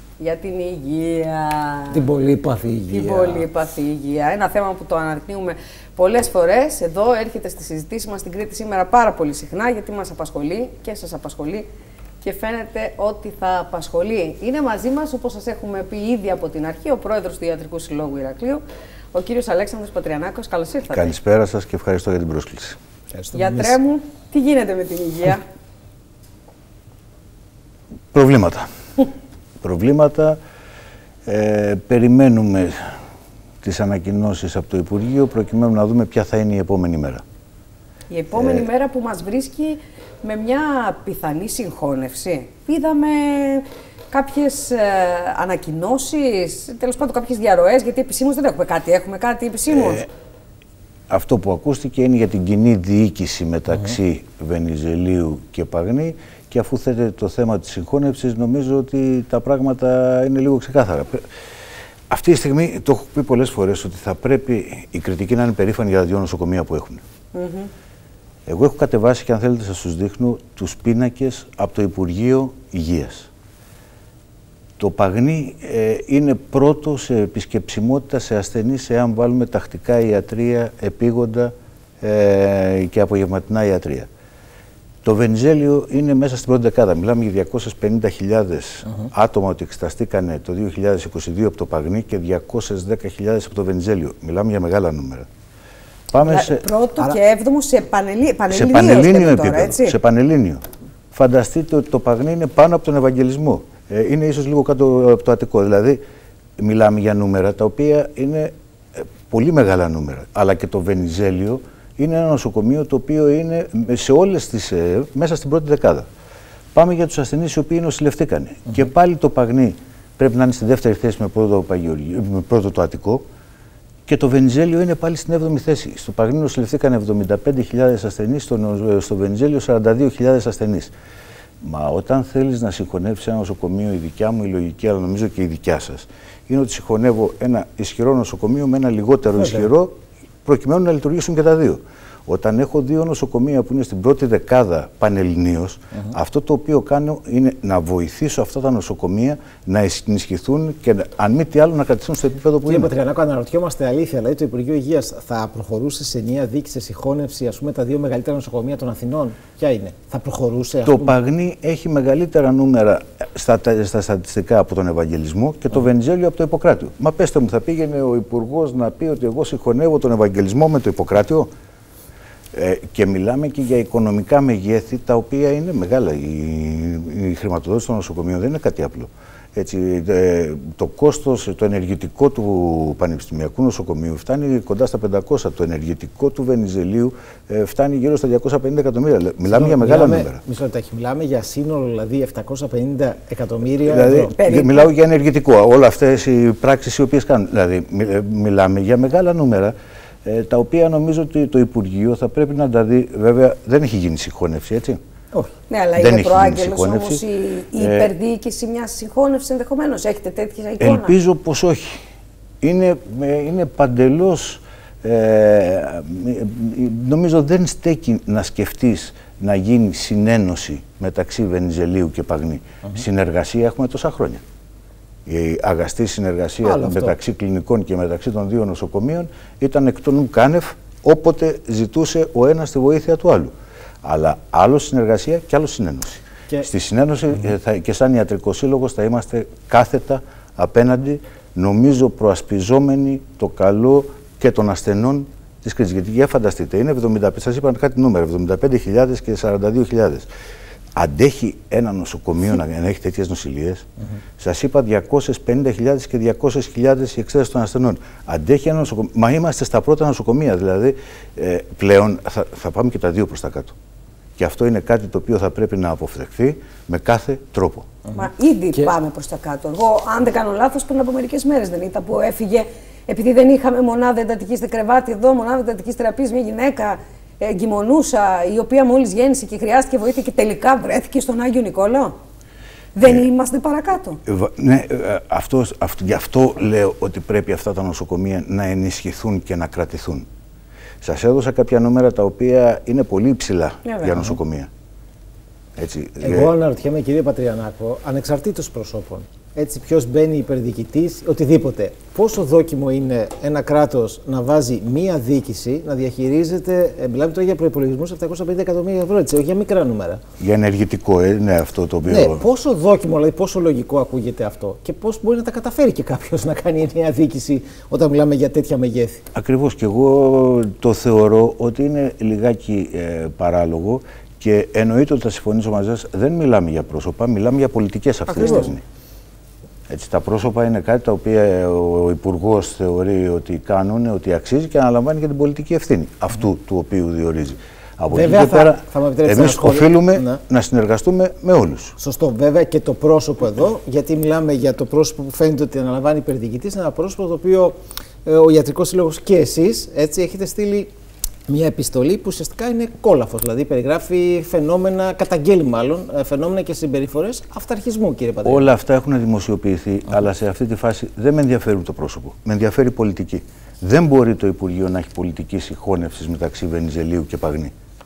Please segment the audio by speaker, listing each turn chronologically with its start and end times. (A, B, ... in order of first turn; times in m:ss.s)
0:00.2-0:02.1 A
0:01.9-0:03.5 B
0:02.9-0:11.7 A
0:12.2-0:21.1 A
0:20.9-0:22.8 C
0:23.1-0:23.8 B
0:23.3-0:25.4 A
0:28.1-0:28.7 C
0:29.6-0:30.4 C
0:31.3-0:32.8 C
0:33.6-0:37.2 C
0:38.1-0:50.1 A
0:38.4-0:38.7 C
0:49.7-0:50.1 C
0:51.1-1:01.2 C
1:02.1-1:07.0 C
1:07.3-1:07.7 A
1:08.5-1:13.3 C
1:14.8-1:24.1 C
1:25.0-1:35.3 C
1:36.1-1:36.6 C
1:36.2-1:40.0 A
1:38.5-1:46.0 C
1:46.6-1:56.1 C
1:56.7-2:03.2 C
2:04.1-2:10.9 C
2:11.6-2:19.9 C
2:20.4-2:32.9 C
2:32.7-2:41.2 B
2:40.8-2:51.5 C
2:52.5-3:10.4 C
3:09.5-3:14.3 B
3:13.8-3:19.7 C
3:14.4-3:14.9 A
3:20.2-3:25.0 C
3:25.7-3:31.2 A
3:26.0-3:27.2 C
3:27.8-3:28.1 C
3:30.8-3:32.0 C
3:32.6-3:44.4 C
3:45.3-3:53.5 C
3:46.6-3:47.1 B
3:54.0-4:10.3 C
4:11.0-4:13.9 C
4:14.4-4:23.7 C
4:24.4-4:27.9 C
4:28.2-4:42.1 A
4:43.0-4:44.2 A
4:44.3-4:50.3 C
4:51.0-4:54.7 C
4:53.9-4:54.2 A
4:55.8-4:56.5 C
4:56.2-5:10.2 B
5:10.4-5:12.4 C
5:12.1-5:19.2 B
5:19.3-5:28.8 C
5:28.3-5:28.7 A
5:29.9-5:42.0 C
5:38.1-5:40.4 B
5:42.0-5:50.9 B
5:51.5-5:58.7 B
5:58.4-6:07.7 C